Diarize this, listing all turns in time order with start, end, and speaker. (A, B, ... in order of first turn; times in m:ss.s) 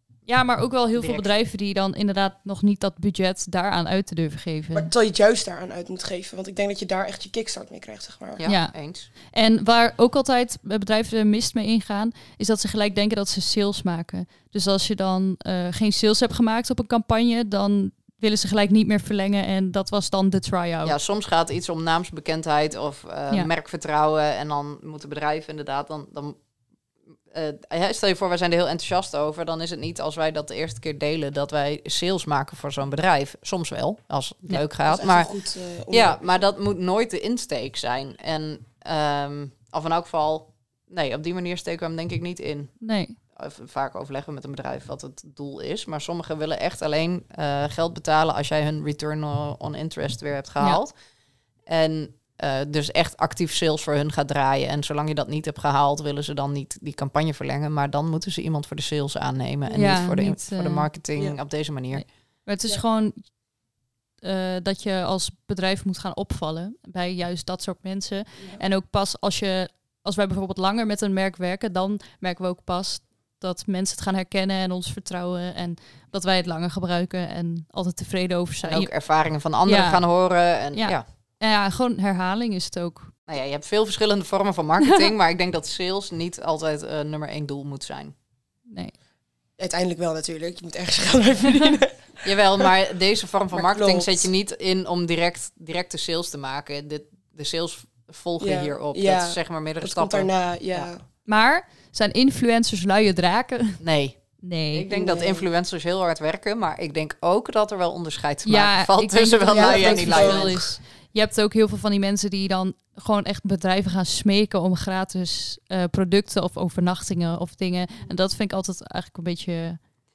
0:00.2-0:04.9 A
0:01.0-0:01.3 B
0:04.7-0:08.4 C
0:08.4-0:09.1 B
0:08.4-0:08.7 A
0:09.3-0:20.9 A
0:20.8-0:26.4 B
0:27.3-0:35.3 B
0:34.9-0:36.3 C
0:35.9-0:42.7 B
0:42.8-0:43.2 A
0:43.4-0:50.9 B
0:51.7-1:02.0 B
0:59.7-1:00.9 A
1:01.9-1:03.3 A
1:04.2-1:18.9 A
1:18.6-1:21.0 B
1:19.6-1:20.0 A
1:20.8-1:23.1 A
1:23.3-1:28.1 B
1:28.7-1:28.9 A
1:29.6-1:32.0 C
1:32.2-1:40.9 B
1:33.5-1:34.3 C
1:38.4-1:41.0 C
1:41.3-1:43.8 A
1:43.8-1:44.2 B
1:44.4-1:44.9 A
1:44.7-1:50.6 B
1:44.9-1:45.4 C
1:48.4-1:59.8 A
1:49.5-1:50.7 C